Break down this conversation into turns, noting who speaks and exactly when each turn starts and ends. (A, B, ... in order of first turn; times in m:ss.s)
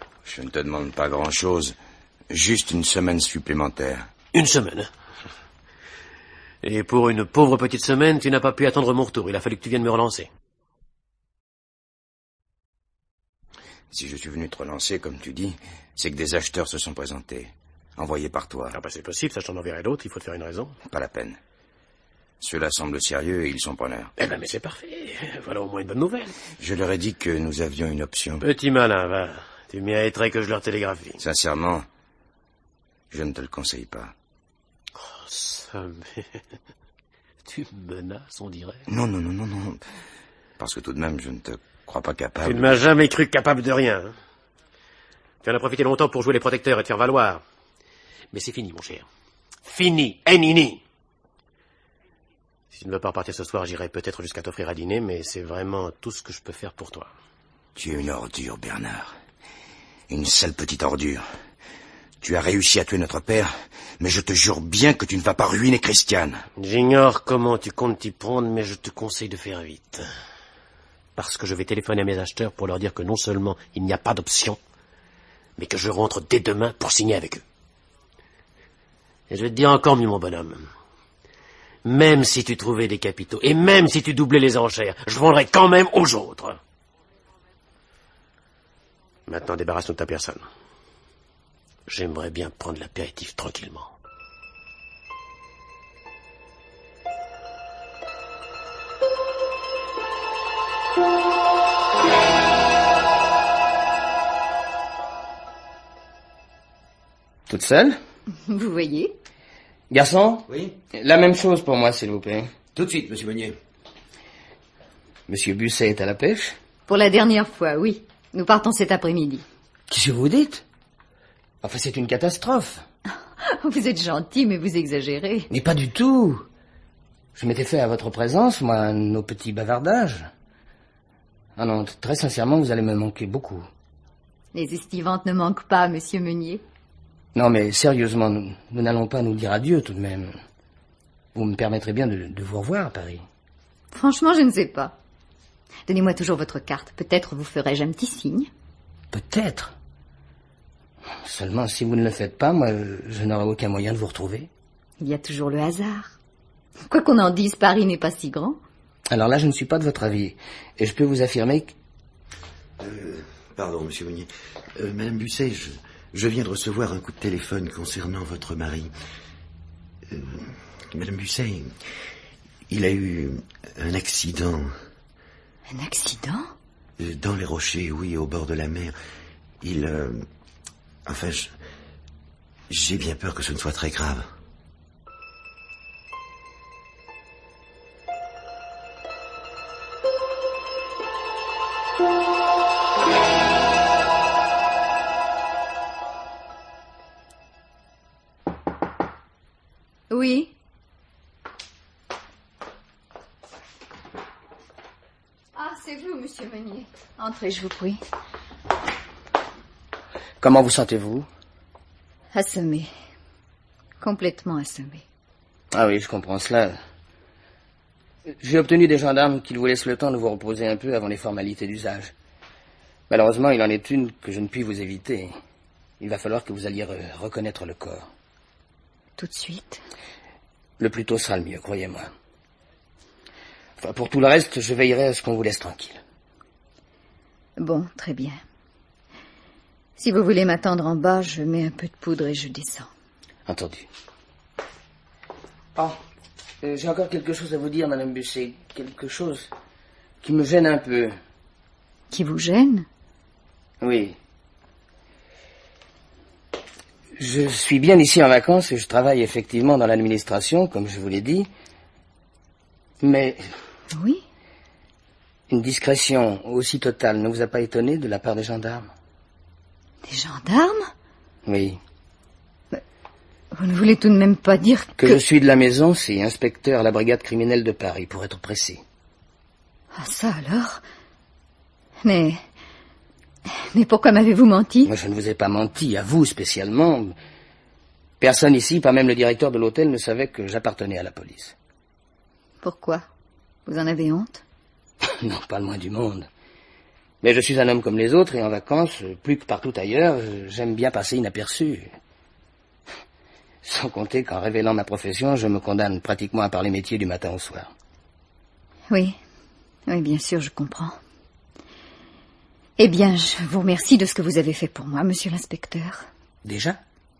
0:00.2-0:01.8 A
0:02.3-0:04.1 A
0:04.3-0:04.9 B
0:06.6-0:10.3 B
0:13.9-0:18.8 A
0:18.7-0:20.8 B
0:20.9-0:21.4 A
0:22.4-0:24.1 A
0:24.2-0:26.4 B
0:26.6-0:28.4 A
0:28.4-0:31.2 B
0:31.2-0:31.9 A
0:33.1-0:34.1 A
0:35.0-0:36.4 B
0:37.5-0:38.8 B
0:38.9-0:39.8 A
0:40.6-0:42.8 A
0:42.4-0:44.2 B
0:45.4-0:47.4 B
0:48.3-0:49.1 B
0:49.7-0:50.8 B
0:52.7-0:57.1 B
0:57.8-0:59.2 A
1:00.1-1:01.2 A
1:02.2-1:06.4 A
1:06.6-1:10.1 B
1:11.2-1:14.6 B
1:15.6-1:17.4 B
1:19.3-1:20.7 B
1:21.8-1:26.6 B
1:29.3-1:30.4 B
1:31.9-1:33.9 B
1:47.5-1:48.0 C
1:48.4-1:49.1 D
1:49.9-1:52.6 C
1:50.5-1:50.8 E
1:52.7-1:53.6 E
1:55.3-1:56.6 C
1:56.9-1:59.4 D
1:59.9-2:00.6 C
2:01.6-2:02.8 C
2:03.4-2:05.5 D
2:05.5-2:06.5 C
2:07.4-2:10.3 C
2:11.6-2:13.7 C
2:14.5-2:16.6 D
2:17.4-2:20.4 C
2:21.3-2:23.2 C
2:23.9-2:25.0 D
2:25.9-2:28.5 D
2:29.1-2:29.7 C
2:31.2-2:34.5 C
2:35.0-2:36.2 D
2:36.9-2:38.6 D
2:39.1-2:41.8 C
2:42.8-2:48.9 E
2:50.1-2:51.8 E
2:52.7-2:54.8 E
2:55.7-2:56.5 D
2:57.0-2:59.0 E
2:59.6-3:00.3 E
3:01.1-3:01.6 E
3:02.7-3:04.3 E
3:20.1-3:20.5 D
3:25.6-3:28.0 D
3:30.4-3:31.3 C
3:32.3-3:32.9 D
3:34.0-3:35.0 D
3:35.7-3:36.8 C
3:38.4-3:42.1 C
3:43.1-3:45.3 C
3:46.0-3:48.1 C
3:49.2-3:49.8 D
3:50.8-3:52.1 C
3:53.8-3:56.0 C
3:57.6-3:58.4 D
4:00.0-4:02.9 D
4:03.5-4:03.9 C
4:06.6-4:09.5 C
4:10.2-4:11.2 C
4:12.1-4:12.9 D
4:13.8-4:14.2 C
4:17.2-4:21.5 C
4:23.0-4:23.4 C
4:23.9-4:24.2 D
4:25.5-4:28.9 C
4:30.0-4:30.9 D
4:31.4-4:31.8 C
4:33.5-4:35.2 D
4:35.0-4:38.8 C
4:39.9-4:40.8 D
4:42.0-4:42.4 D
4:43.6-4:44.9 D
4:44.8-4:47.2 C
4:48.2-4:51.5 C
4:52.6-4:53.0 D
4:53.7-4:54.4 D
4:55.0-4:56.3 C
4:57.2-5:01.9 C
5:03.6-5:07.7 C
5:08.9-5:09.2 D
5:09.9-5:11.0 D
5:12.8-5:16.1 D
5:16.4-5:16.8 C